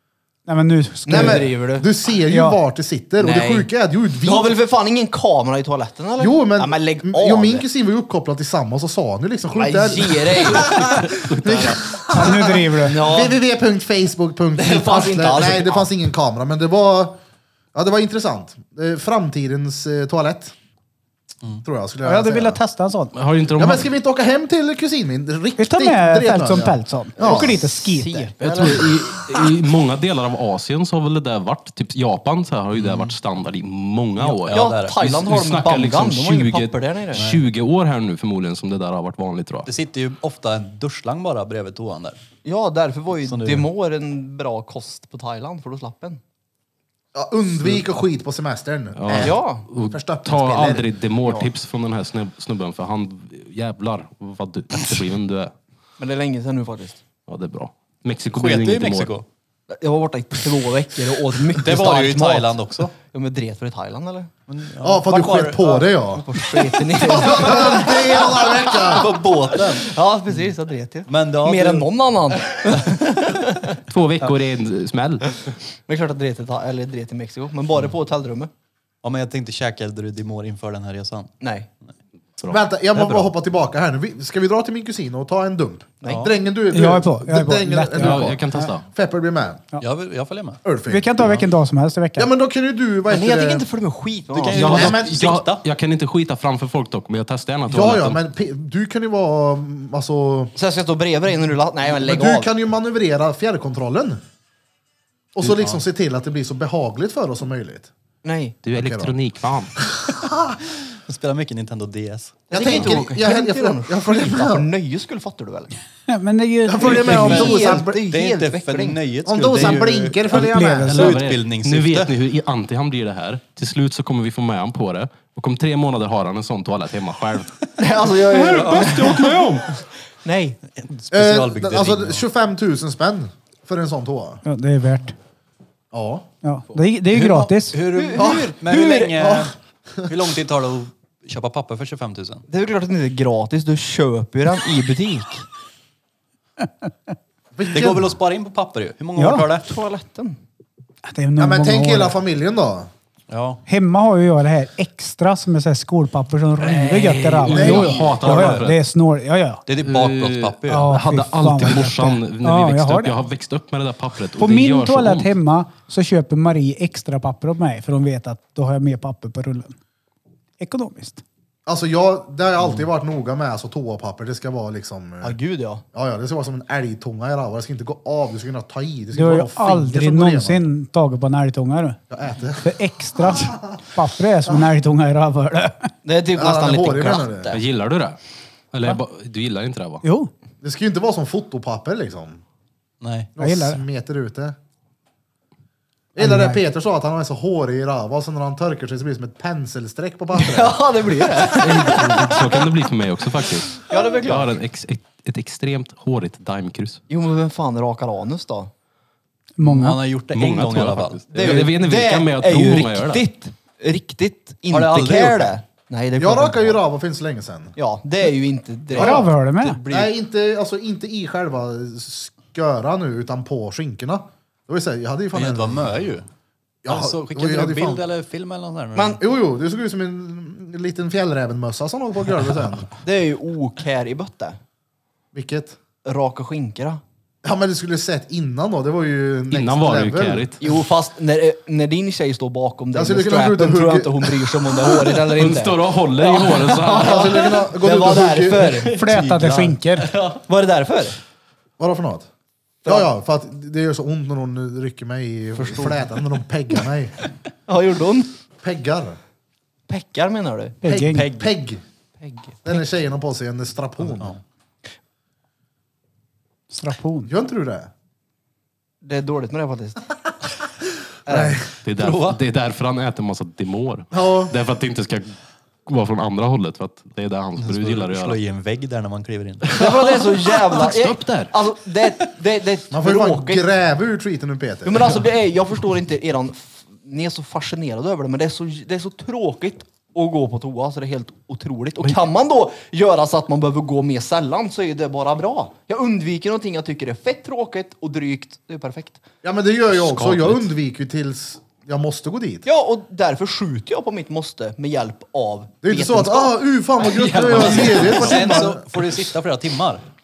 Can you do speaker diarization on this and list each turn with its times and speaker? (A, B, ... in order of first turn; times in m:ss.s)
0:00.5-0:01.5 A
0:01.1-0:01.9 B
0:01.1-0:04.6 C
0:02.3-0:02.6 A
0:03.2-0:03.7 B
0:04.2-0:07.6 B
0:06.2-0:17.2 C
0:09.6-0:11.2 B
0:11.1-0:11.8 D
0:12.1-0:13.0 A
0:12.8-0:13.4 B
0:14.6-0:15.9 B
0:17.7-0:20.5 C
0:21.6-0:22.6 C
0:22.0-0:23.1 A
0:23.1-0:23.9 D
0:23.6-0:27.6 C
0:25.6-0:28.3 A
0:27.2-0:29.5 B
0:28.4-0:39.7 D
0:32.8-0:33.2 E
0:34.2-0:35.1 E
0:34.5-0:37.2 B
0:37.2-0:37.4 E
0:39.6-0:42.2 E
0:42.4-0:46.2 B
0:43.2-0:43.7 E
0:47.1-0:50.9 C
0:49.0-0:55.5 D
0:49.1-0:49.7 B
0:50.6-0:51.5 B
0:56.0-0:57.0 B
0:57.3-0:59.1 D
0:58.3-0:59.3 E
0:59.7-1:04.3 B
1:01.5-1:02.9 E
1:04.5-1:05.9 E
1:04.8-1:06.3 C
1:06.1-1:13.8 B
1:07.0-1:09.2 C
1:08.9-1:10.5 E
1:11.1-1:11.9 E
1:13.9-1:15.4 D
1:15.9-1:18.5 B
1:19.0-1:21.3 E
1:21.4-1:21.7 B
1:22.4-1:23.3 D
1:22.5-1:29.6 C
1:26.0-1:26.3 B
1:26.1-1:26.3 E
1:26.7-1:28.7 A
1:28.0-1:28.8 D
1:29.8-1:30.6 E
1:30.6-1:31.1 C
1:30.9-1:32.3 A
1:32.2-1:33.6 C
1:33.1-1:35.0 B
1:34.3-1:35.6 E
1:34.5-1:38.2 D
1:34.7-1:35.2 C
1:37.7-1:40.6 C
1:40.6-1:42.5 B
1:41.9-1:44.2 C
1:45.4-1:47.9 C
1:48.2-1:48.6 B
1:48.6-1:49.8 D
1:48.7-1:49.2 C
1:49.8-1:50.6 C
1:51.1-1:52.9 E
1:52.5-1:55.7 B
1:52.5-1:54.7 C
1:56.1-1:57.4 A
1:56.7-1:58.0 C
1:56.8-1:59.0 B
1:56.9-2:02.1 E
1:59.2-2:01.2 C
2:00.3-2:01.1 A
2:00.9-2:07.6 D
2:07.8-2:09.6 B
2:08.2-2:09.8 D
2:08.5-2:09.1 E
2:10.2-2:10.6 B
2:10.7-2:12.2 E
2:11.1-2:14.4 C
2:14.4-2:15.2 A
2:15.9-2:16.3 C
2:16.4-2:17.8 A
2:17.1-2:19.5 E
2:17.9-2:19.3 B
2:18.2-2:18.5 C
2:19.2-2:20.1 C
2:20.1-2:22.5 E
2:22.5-2:25.5 B
2:27.6-2:28.2 C
2:27.7-2:29.7 E
2:29.2-2:29.5 A
2:29.6-2:30.4 B
2:31.0-2:32.2 A
2:31.4-2:32.9 C
2:33.3-2:33.6 E
2:33.7-2:39.6 A
2:36.6-2:38.8 D
2:37.5-2:38.7 E
2:37.5-2:37.9 C
2:39.7-2:41.0 E
2:39.8-2:45.3 D
2:40.7-2:43.2 A
2:44.4-2:49.8 A
2:50.6-2:51.2 A
2:51.7-2:55.4 C
2:55.2-2:55.8 B
2:55.9-3:00.7 C
2:59.1-3:02.0 A
3:02.1-3:03.6 C
3:02.6-3:05.9 A
3:06.0-3:07.6 B
3:06.4-3:07.6 C
3:07.5-3:08.2 D
3:08.7-3:10.0 D
3:10.0-3:10.3 A
3:10.6-3:12.4 C
3:13.0-3:13.3 E
3:13.4-3:14.6 C
3:13.4-3:13.8 A
3:16.1-3:20.8 C
3:16.2-3:16.6 A
3:20.4-3:22.7 B
3:21.5-3:27.0 D
3:23.8-3:24.6 B
3:27.1-3:28.7 B
3:29.6-3:30.0 A
3:29.6-3:31.7 E
3:30.3-3:33.2 D
3:31.3-3:36.8 B
3:34.7-3:35.6 E
3:36.2-3:37.8 C
3:37.8-3:39.2 B
3:39.0-3:39.3 C
3:39.0-3:39.8 A
3:39.6-3:40.1 E
3:39.9-3:45.9 C
3:45.3-3:46.3 E
3:46.8-3:48.0 C
3:46.9-3:49.2 E
3:49.0-3:49.2 B
3:49.2-3:52.9 C
3:53.0-3:54.6 B
3:55.3-3:55.8 C
3:56.0-3:57.0 B
3:57.4-4:00.5 C
3:59.5-4:00.6 D
4:00.6-4:09.0 B
4:02.9-4:04.6 C
4:05.2-4:07.6 D
4:06.8-4:08.8 C
4:08.9-4:10.1 A
4:09.0-4:09.8 E
4:10.0-4:10.4 D
4:10.4-4:11.2 B
4:11.8-4:12.3 C
4:12.8-4:17.2 C
4:15.6-4:16.0 B
4:17.7-4:18.3 B
4:18.6-4:19.2 C
4:19.9-4:21.2 B
4:20.8-4:21.3 A
4:20.8-4:21.8 C
4:22.2-4:22.6 B
4:22.6-4:24.4 C
4:26.7-4:27.3 A
4:27.3-4:27.9 C
4:29.0-4:30.1 B
4:31.3-4:31.6 B
4:31.3-4:31.7 C
4:31.8-4:35.4 D
4:32.0-4:32.4 E
4:34.1-4:34.5 C
4:35.9-4:38.4 D
4:37.6-4:40.0 E
4:39.8-4:43.6 B
4:39.8-4:40.1 D
4:40.6-4:41.5 D
4:42.9-4:45.2 C
4:44.8-4:59.2 B
4:59.4-5:02.7 C
5:00.0-5:00.6 D
5:02.6-5:06.6 B
5:05.8-5:08.9 C
5:07.1-5:10.0 E
5:07.4-5:08.6 B